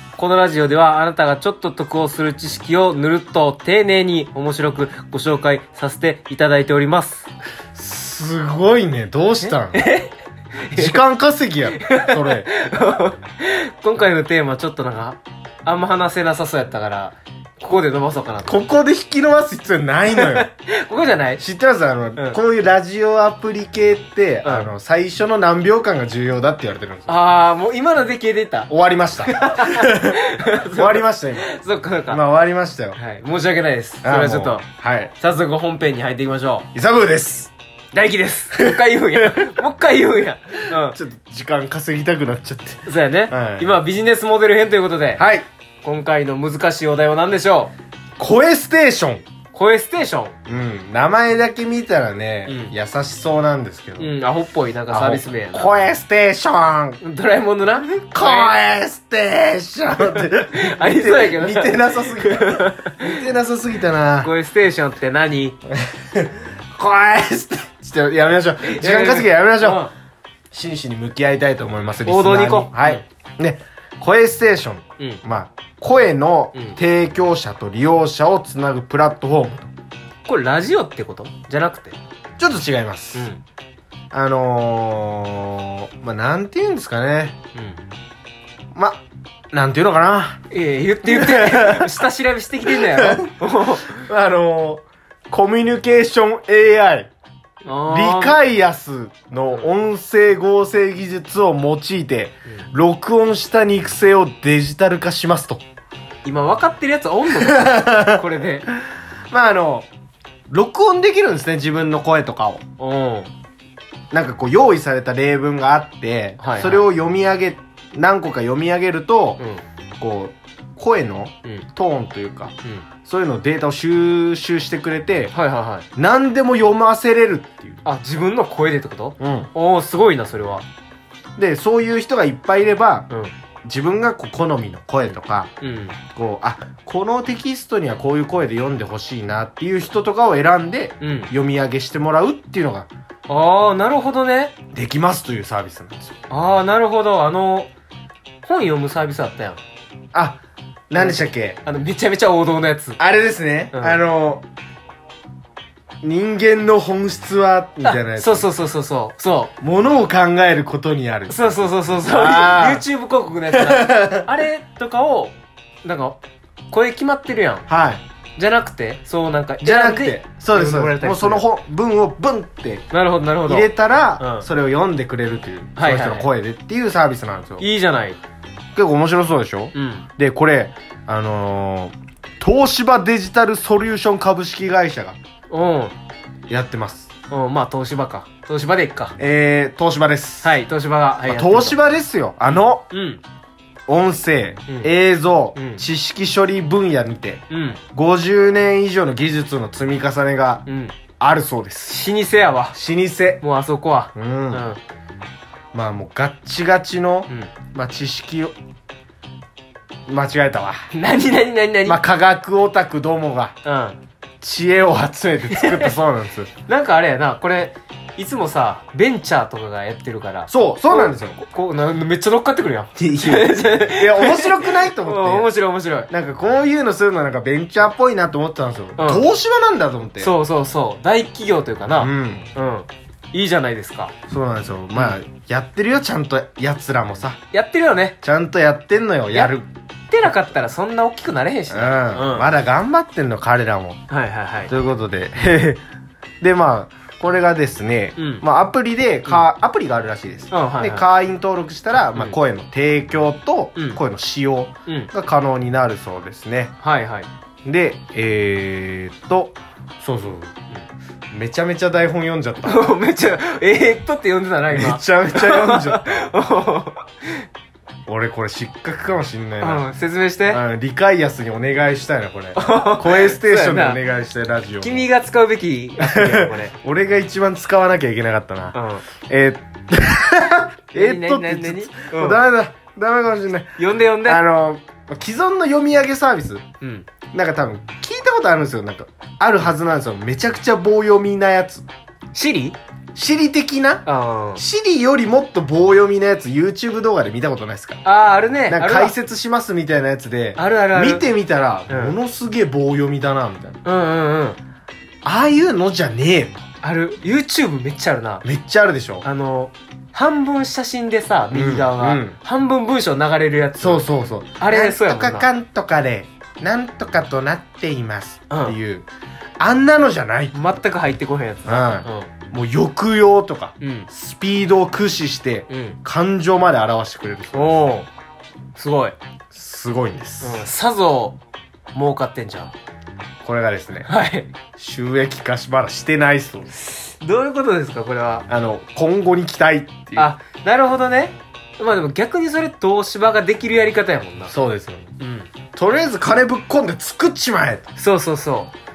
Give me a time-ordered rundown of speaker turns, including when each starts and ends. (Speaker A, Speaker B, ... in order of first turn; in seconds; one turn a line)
Speaker A: 0.2-7.3
Speaker B: 7.7-9.9
Speaker A: 9.4-11.0
Speaker B: 10.7-12.5
Speaker A: 11.8-18.6
Speaker B: 18.4-20.5
Speaker A: 20.1-21.4
Speaker B: 21.4-27.1
Speaker A: 24.4-24.7
Speaker A: 27.1-28.7
Speaker B: 28.7-31.5
Speaker A: 29.2-32.2
Speaker B: 32.1-33.0
Speaker A: 32.9-34.6
Speaker B: 34.0-35.1
Speaker A: 35.2-36.7
Speaker B: 36.7-37.5
Speaker A: 37.9-41.0
Speaker B: 38.5-39.6
Speaker B: 40.7-43.8
Speaker A: 42.9-45.2
Speaker B: 45.2-45.5
Speaker A: 45.8-47.7
Speaker B: 48.2-49.2
Speaker A: 49.5-50.4
Speaker B: 50.5-54.1
Speaker A: 52.5-52.7
Speaker A: 54.0-55.7
Speaker B: 54.9-57.0
Speaker A: 57.0-58.6
Speaker B: 58.1-64.3
Speaker A: 60.1-63.1
Speaker A: 64.2-65.5
Speaker B: 65.7-69.9
Speaker A: 68.6-69.9
Speaker B: 70.5-79.7
Speaker A: 72.0-73.0
Speaker A: 80.2-82.0
Speaker B: 82.4-83.3
Speaker A: 83.1-83.4
Speaker B: 84.1-87.4
Speaker A: 87.5-87.8
Speaker B: 88.7-90.4
Speaker A: 90.5-94.1
Speaker B: 91.0-92.0
Speaker B: 92.7-97.1
Speaker A: 97.6-98.4
Speaker B: 97.8-105.6
Speaker A: 106.2-108.7
Speaker B: 107.3-108.7
Speaker B: 109.3-109.9
Speaker B: 110.5-112.6
Speaker A: 112.8-113.3
Speaker B: 114.1-119.4
Speaker A: 116.4-116.9
Speaker B: 120.0-122.5
Speaker B: 123.0-125.3
Speaker A: 125.3-125.8
Speaker B: 126.0-127.8
Speaker A: 127.8-130.7
Speaker B: 129.2-129.5
Speaker B: 131.4-133.1
Speaker B: 133.6-135.5
Speaker A: 135.6-136.0
Speaker B: 136.1-142.9
Speaker A: 141.0-141.3
Speaker A: 143.3-144.5
Speaker B: 144.7-146.2
Speaker A: 146.3-147.7
Speaker A: 148.4-149.6
Speaker B: 150.1-151.6
Speaker A: 150.9-153.0
Speaker B: 153.0-154.4
Speaker A: 153.7-154.0
Speaker B: 156.0-158.5
Speaker A: 157.8-159.5
Speaker B: 159.6-162.8
Speaker A: 161.3-166.2
Speaker B: 163.5-164.4
Speaker A: 166.7-167.7
Speaker B: 167.7-168.0
Speaker A: 168.3-171.4
Speaker B: 169.6-172.8
Speaker A: 172.9-174.5
Speaker B: 173.4-177.7
Speaker A: 175.8-176.3
Speaker A: 177.6-178.2
Speaker B: 178.7-185.2
Speaker A: 179.7-180.1
Speaker A: 185.5-185.9
Speaker B: 186.5-187.1
Speaker A: 187.3-189.2
Speaker B: 189.2-190.5
Speaker A: 190.4-191.8
Speaker B: 191.2-192.8
Speaker A: 192.4-193.2
Speaker B: 193.9-200.7
Speaker A: 195.5-195.8
Speaker A: 197.5-197.8
Speaker A: 200.7-200.9
Speaker B: 201.2-201.9
Speaker A: 201.9-202.8
Speaker B: 202.7-203.4
Speaker A: 203.4-204.8
Speaker B: 204.1-204.7
Speaker B: 205.7-208.5
Speaker B: 210.1-210.8
Speaker A: 210.9-212.0
Speaker B: 211.8-213.6
Speaker A: 213.6-214.0
Speaker B: 214.4-216.5
Speaker A: 215.5-215.9
Speaker A: 216.7-226.1
Speaker B: 220.5-221.4
Speaker B: 222.9-225.5
Speaker B: 226.1-230.3
Speaker A: 229.0-229.2
Speaker A: 230.2-234.1
Speaker B: 231.9-232.5
Speaker B: 234.3-237.4
Speaker A: 237.5-238.2
Speaker B: 238.2-239.7
Speaker A: 239.3-239.6
Speaker A: 240.1-242.5
Speaker B: 241.7-244.0
Speaker A: 244.1-244.7
Speaker B: 244.7-245.8
Speaker B: 246.4-256.7
Speaker A: 248.2-248.4
Speaker A: 250.5-251.1
Speaker A: 256.8-257.3
Speaker B: 257.6-260.5
Speaker B: 261.3-262.9
Speaker A: 262.6-267.4
Speaker B: 264.7-266.3
Speaker B: 268.1-269.9
Speaker A: 269.6-270.6
Speaker B: 270.5-275.1
Speaker A: 272.6-274.0
Speaker A: 274.8-276.7
Speaker B: 276.0-278.8
Speaker A: 278.7-279.0
Speaker B: 279.3-286.6
Speaker A: 280.9-282.4
Speaker A: 283.8-284.4
Speaker A: 286.8-287.1
Speaker B: 287.3-291.9
Speaker A: 292.3-292.8
Speaker B: 293.1-298.0
Speaker A: 294.1-294.6
Speaker A: 298.0-299.1
Speaker B: 298.7-303.8
Speaker A: 300.6-301.3
Speaker A: 301.9-302.1
Speaker A: 303.8-304.6
Speaker B: 305.2-306.6
Speaker A: 306.8-308.4
Speaker B: 308.4-309.2
Speaker A: 309.2-314.1
Speaker B: 311.5-312.4
Speaker B: 313.8-319.1
Speaker A: 314.6-315.5
Speaker A: 318.5-318.8
Speaker B: 319.6-320.6
Speaker A: 320.5-322.3
Speaker B: 321.6-327.9
Speaker A: 323.8-324.1
Speaker A: 325.7-326.0
Speaker A: 327.5-328.1
Speaker A: 328.8-329.2
Speaker B: 329.5-330.6
Speaker A: 330.4-331.4
Speaker A: 331.9-332.7
Speaker B: 333.4-334.1
Speaker A: 334.1-334.5
Speaker B: 334.8-336.7
Speaker A: 336.7-338.4
Speaker B: 338.5-340.3
Speaker A: 340.1-344.5
Speaker B: 344.5-345.1
Speaker A: 345.2-345.5
Speaker B: 345.7-347.9
Speaker A: 347.9-348.7